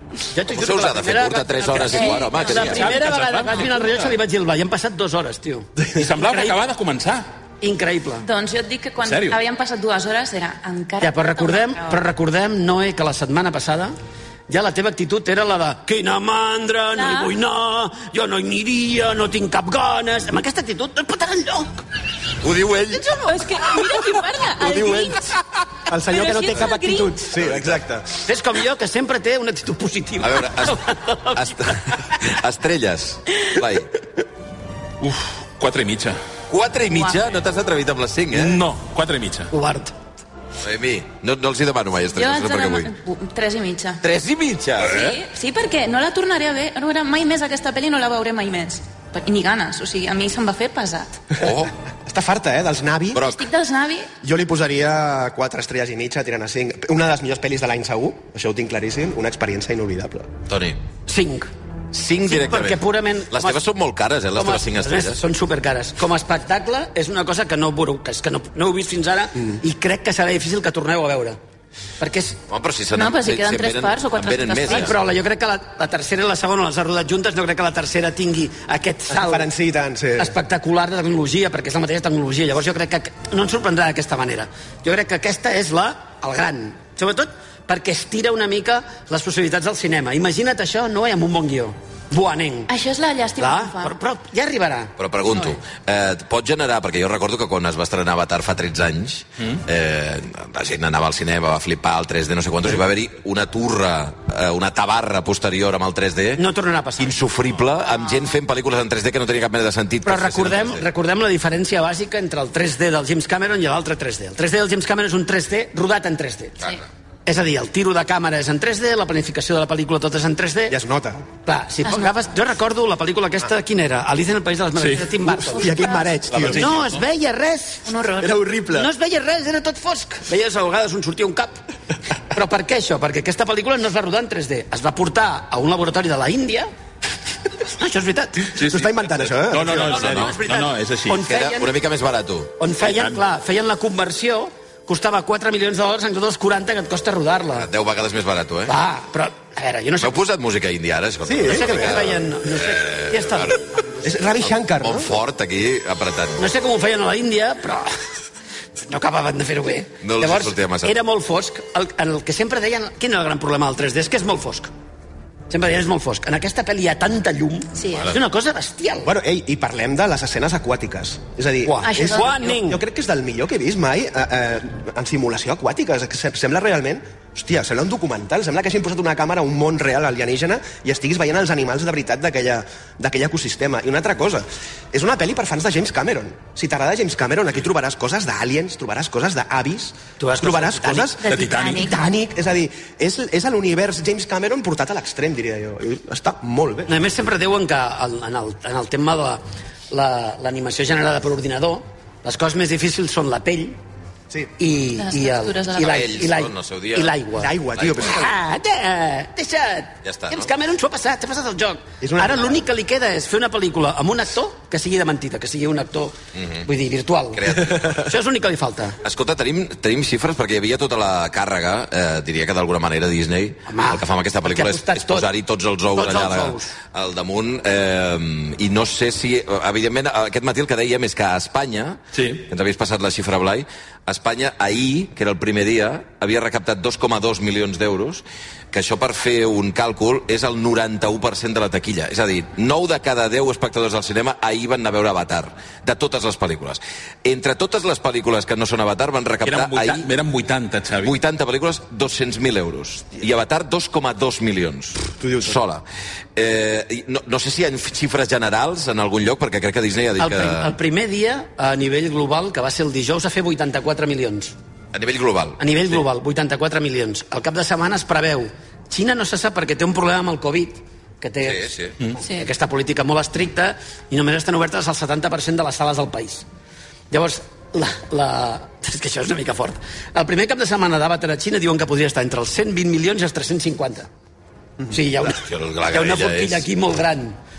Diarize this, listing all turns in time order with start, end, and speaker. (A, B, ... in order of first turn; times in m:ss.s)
0:00.3-0:06.6 A
0:00.5-0:02.8 B
0:01.8-0:03.0 C
0:02.5-0:04.1 D
0:05.9-0:07.2 D
0:07.6-0:08.2 A
0:08.2-0:12.0 C
0:09.0-0:09.4 D
0:11.0-0:13.9 A
0:14.5-0:21.8 A
0:16.9-0:17.3 C
0:22.4-0:23.3 B
0:23.1-0:25.3 C
0:25.9-0:28.2 E
0:25.9-0:27.2 C
0:27.4-0:27.8 B
0:28.2-0:31.7 A
0:30.2-0:33.9 B
0:35.0-0:36.2 D
0:36.5-0:38.6 B
0:36.9-0:37.2 C
0:38.3-0:39.5 D
0:39.5-0:39.9 A
0:40.6-0:42.9 B
0:42.1-0:44.0 C
0:44.0-0:45.0 B
0:44.8-0:45.2 D
0:44.8-0:51.2 C
0:51.4-0:51.7 B
0:52.0-0:53.2 E
0:53.1-0:53.5 B
0:53.2-0:54.1 C
0:54.2-1:00.3 E
1:00.5-1:00.8 B
1:01.1-1:01.5 A
1:01.9-1:05.2 B
1:02.2-1:03.6 A
1:04.3-1:11.4 A
1:12.0-1:12.4 A
1:12.5-1:14.9 B
1:12.9-1:15.0 C
1:14.7-1:19.5 A
1:19.1-1:20.3 E
1:20.2-1:32.7 A
1:32.7-1:33.9 C
1:33.4-1:35.5 A
1:35.0-1:46.4 B
1:46.4-1:47.2 A
1:47.0-1:50.8 B
1:47.8-1:48.3 C
1:50.0-1:56.6 A
1:57.2-2:00.8 A
2:00.7-2:01.2 E
2:01.4-2:05.7 A
2:04.8-2:05.0 D
2:05.4-2:06.2 C
2:05.5-2:06.7 E
2:06.3-2:07.0 D
2:06.5-2:07.9 A
2:07.8-2:08.4 C
2:08.2-2:08.9 E
2:08.7-2:11.6 A
2:12.3-2:16.7 A
2:17.7-2:18.5 A
2:18.6-2:21.2 D
2:18.6-2:20.1 E
2:19.6-2:21.7 A
2:19.9-2:20.3 B
2:21.3-2:22.5 B
2:22.6-2:27.7 A
2:22.8-2:23.2 D
2:27.6-2:28.7 B
2:28.6-2:30.2 A
2:30.0-2:33.6 B
2:31.2-2:32.1 E
2:31.4-2:33.9 A
2:34.0-2:35.1 E
2:34.8-2:36.5 B
2:36.4-2:37.9 A
2:38.9-2:44.7 A
2:40.0-2:40.9 B
2:45.5-2:49.1 A
2:47.8-2:48.2 C
2:49.0-3:16.9 E
2:51.6-2:52.8 A
2:51.8-2:52.4 C
3:10.2-3:11.1 A
3:11.2-3:12.1 C
3:11.3-3:11.8 D
3:16.9-3:23.8 A
3:24.6-3:39.0 A
3:25.0-3:26.2 C
3:25.8-3:27.2 B
3:27.4-3:28.3 E
3:27.7-3:28.3 B
3:30.0-3:30.5 B
3:32.0-3:32.6 E
3:36.4-3:36.7 B
3:37.4-3:38.1 B
3:39.0-4:10.1 B
3:43.7-3:45.3 A
3:45.9-3:46.7 A
3:52.1-3:52.4 D
4:09.4-4:11.2 D
4:11.0-4:15.8 B
4:15.2-4:15.5 E
4:16.4-4:20.7 B
4:20.2-4:24.5 A
4:24.9-4:26.0 B
4:25.6-4:36.4 A
4:31.4-4:31.9 B
4:32.2-4:32.5 C
4:37.1-4:44.1 A
4:44.9-4:47.4 A
4:45.2-4:46.6 B